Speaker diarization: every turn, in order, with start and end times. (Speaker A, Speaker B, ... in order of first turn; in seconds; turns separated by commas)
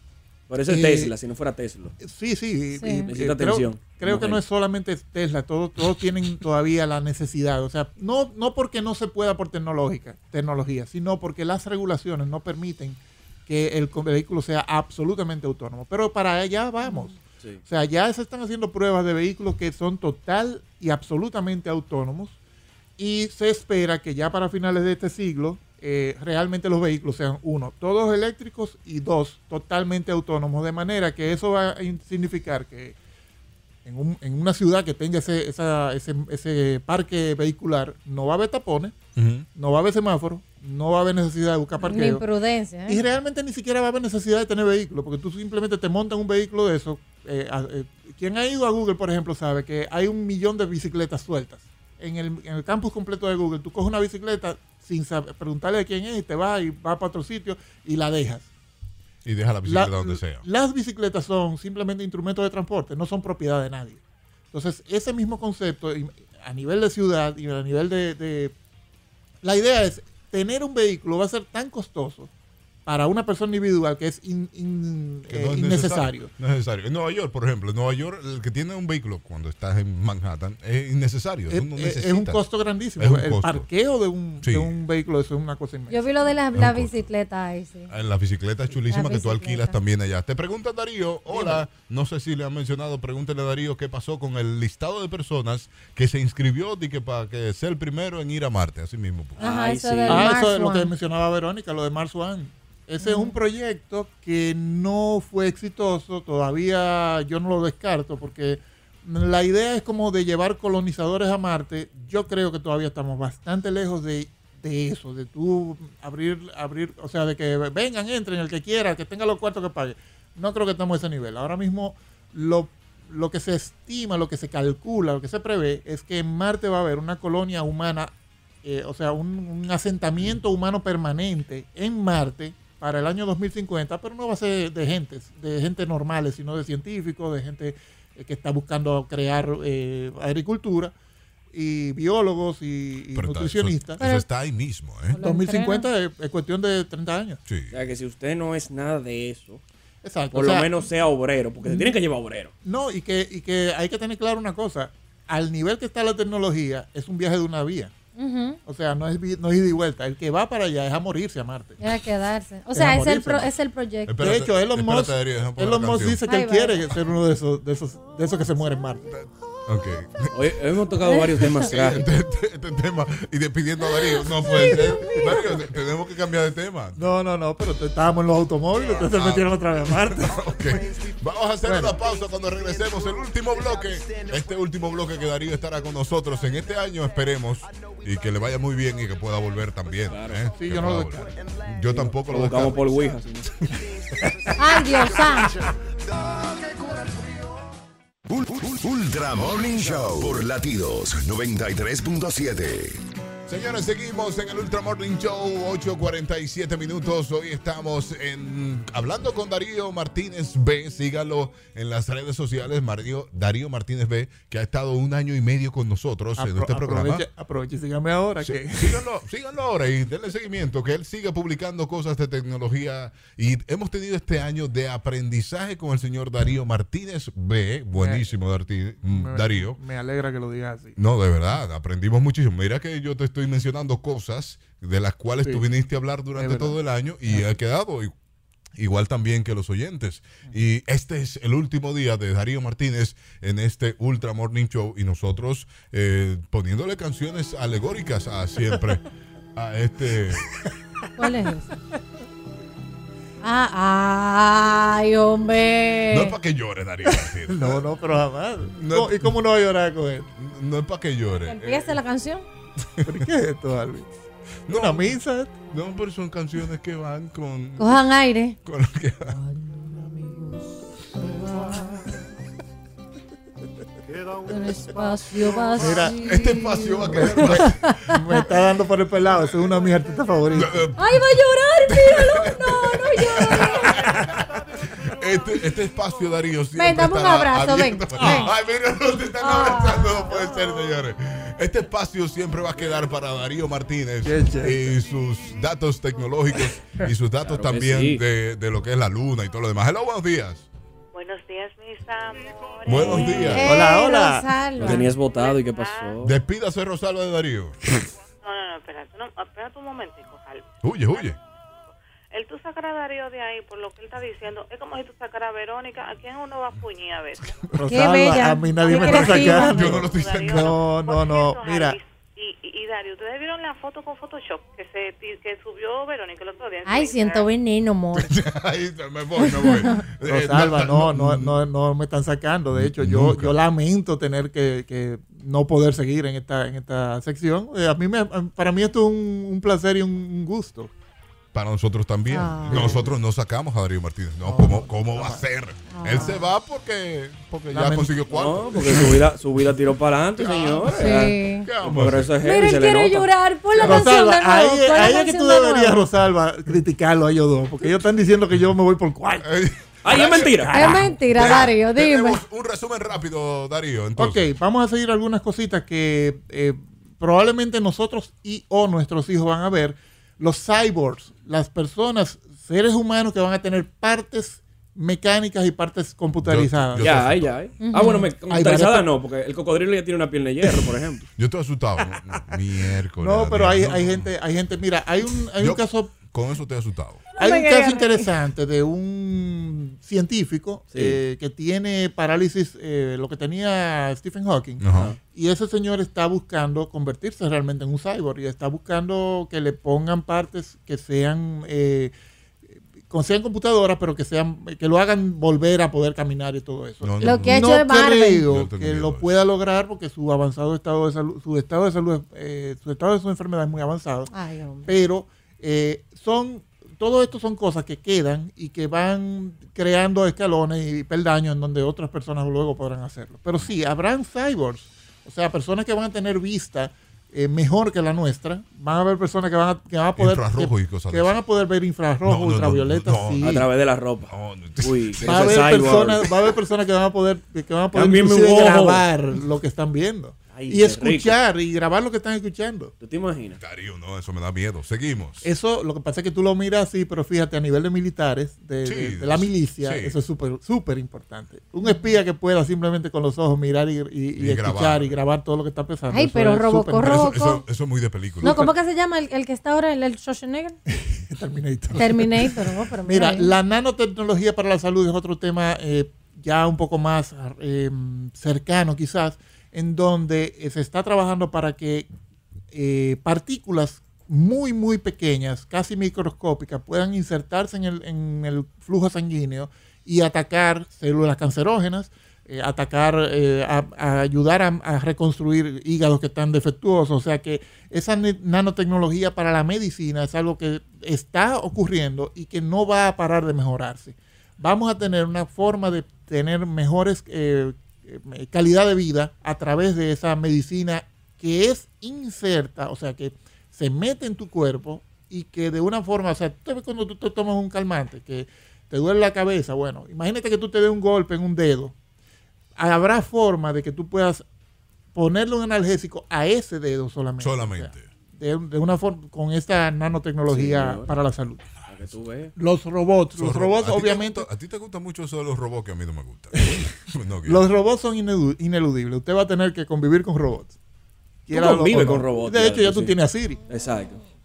Speaker A: 0.5-1.9, Speaker B: 0.7-1.1, Speaker B: 2.0-22.4, Speaker C: 2.8-3.1, Speaker A: 3.1-4.4, Speaker B: 23.0-33.0, Speaker B: 33.9-39.0, Speaker D: 39.2-39.5, Speaker B: 39.5-42.2, Speaker C: 41.8-43.0, Speaker B: 42.9-58.5, Speaker D: 59.2-60.5, Speaker B: 59.7-64.0, Speaker B: 64.5-68.5, Speaker B: 69.4-72.3, Speaker B: 72.9-76.3, Speaker D: 75.3-82.4, Speaker B: 81.5-86.3, Speaker D: 83.0-83.7, Speaker D: 84.4-84.8, Speaker C: 85.9-87.9, Speaker D: 86.5-87.1, Speaker D: 87.9-99.4, Speaker C: 88.9-89.8, Speaker B: 91.3-91.6, Speaker A: 99.4-100.3, Speaker C: 99.4-100.9, Speaker B: 100.1-128.1, Speaker C: 103.0-103.4, Speaker B: 128.6-140.9, Speaker B: 141.5-144.0, Speaker D: 143.1-145.2, Speaker C: 144.0-144.3, Speaker C: 145.1-145.9, Speaker B: 145.2-147.4, Speaker D: 147.5-147.7, Speaker A: 147.7-149.6, Speaker B: 150.0-150.8, Speaker A: 150.3-152.5, Speaker B: 151.6-151.9, Speaker B: 152.6-157.9, Speaker C: 158.2-158.6, Speaker B: 158.7-161.8, Speaker C: 161.8-164.2, Speaker B: 162.7-163.5, Speaker D: 164.1-166.2, Speaker B: 164.2-169.1, Speaker C: 166.3-166.8, Speaker D: 169.1-170.3, Speaker A: 170.3-172.1, Speaker D: 171.4-177.1, Speaker C: 174.5-175.5, Speaker B: 177.0-180.4, Speaker D: 178.9-192.8, Speaker B: 181.6-182.0, Speaker A: 190.1-190.5, Speaker B: 190.6-191.3, Speaker A: 191.9-193.5, Speaker C: 194.6-195.5, Speaker E: 198.3-203.0, Speaker D: 203.5-217.3, Speaker B: 216.4-219.0, Speaker D: 218.4-229.8, Speaker B: 227.9-228.3, Speaker B: 229.0-231.0, Speaker D: 231.0-238.1, Speaker B: 236.3-237.6, Speaker D: 238.8-249.0, Speaker D: 249.6-250.5, Speaker C: 251.2-251.7, Speaker C: 253.4-256.3, Speaker D: 256.1-257.9, Speaker B: 257.1-260.3, Speaker D: 258.8-259.4, Speaker D: 260.4-262.0, Speaker C: 261.5-262.4, Speaker D: 263.0-263.3, Speaker B: 263.1-264.1, Speaker D: 264.7-265.2, Speaker B: 264.7-265.6, Speaker D: 265.7-268.0, Speaker C: 267.8-268.6, Speaker D: 268.6-269.4, Speaker C: 269.3-272.0, Speaker C: 274.5-278.4, Speaker B: 275.8-276.2, Speaker D: 276.0-278.0, Speaker B: 277.1-280.9, Speaker D: 280.5-284.3, Speaker C: 281.0-284.1, Speaker D: 285.0-300.7, Speaker C: 286.8-288.5, Speaker B: 288.2-288.5, Speaker C: 289.4-290.6, Speaker B: 294.2-294.9, Speaker A: 297.4-298.2, Speaker F: 301.1-303.6, Speaker D: 302.9-303.7, Speaker C: 303.0-305.1, Speaker B: 303.6-304.5, Speaker A: 304.8-306.3, Speaker F: 305.2-306.2, Speaker D: 306.2-307.8, Speaker F: 308.4-311.4, Speaker D: 310.8-311.4, Speaker F: 312.3-317.6, Speaker B: 317.7-322.0, Speaker C: 317.9-319.9, Speaker D: 319.0-320.8, Speaker F: 319.8-327.5, Speaker C: 326.9-328.3, Speaker D: 328.1-331.6, Speaker C: 329.4-330.0, Speaker B: 330.2-340.9, Speaker D: 332.7-333.6, Speaker D: 341.5-349.1, Speaker C: 342.3-343.0, Speaker B: 342.7-343.1, Speaker B: 344.4-345.4, Speaker C: 345.9-346.4, Speaker B: 347.5-348.2, Speaker A: 348.3-353.3, Speaker D: 350.4-352.3, Speaker C: 351.0-351.7, Speaker C: 352.4-356.1, Speaker D: 353.7-354.2, Speaker B: 353.8-359.5, Speaker D: 359.4-364.5, Speaker A: 360.0-361.0, Speaker B: 360.7-361.0, Speaker C: 360.7-362.4, Speaker B: 364.2-377.1, Speaker D: 376.4-377.5, Speaker A: 377.0-381.2, Speaker C: 377.8-378.3, Speaker B: 378.5-379.1, Speaker D: 381.4-384.3, Speaker B: 383.2-386.1, Speaker D: 385.5-387.2, Speaker C: 387.4-388.3, Speaker B: 387.4-402.1, Speaker A: 390.9-391.2, Speaker D: 394.8-395.1, Speaker B: 403.1-414.3, Speaker D: 407.0-407.8, Speaker C: 407.2-408.4, Speaker D: 408.4-409.3, Speaker C: 414.3-414.9, Speaker B: 414.9-433.7, Speaker D: 430.2-431.3, Speaker D: 432.2-433.6, Speaker A: 433.4-436.3, Speaker D: 434.3-436.1, Speaker B: 435.2-442.9, Speaker A: 437.9-439.1, Speaker A: 440.5-441.4, Speaker A: 443.0-443.6, Speaker D: 443.6-445.5, Speaker B: 445.4-457.1, Speaker D: 448.8-450.1, Speaker D: 454.4-455.2, Speaker C: 456.1-457.6, Speaker D: 457.0-458.7, Speaker C: 458.4-460.8, Speaker B: 458.4-458.7, Speaker B: 460.9-472.1, Speaker C: 462.0-463.5, Speaker B: 472.7-511.9, Speaker B: 512.8-514.5, Speaker B: 515.1-521.6, Speaker D: 517.4-518.1, Speaker A: 520.5-521.1, Speaker A: 521.9-522.5, Speaker B: 522.6-524.5, Speaker D: 523.3-527.6, Speaker B: 526.6-526.8, Speaker B: 527.5-530.8, Speaker B: 531.5-533.6, Speaker A: 531.5-533.2, Speaker A: 533.7-534.2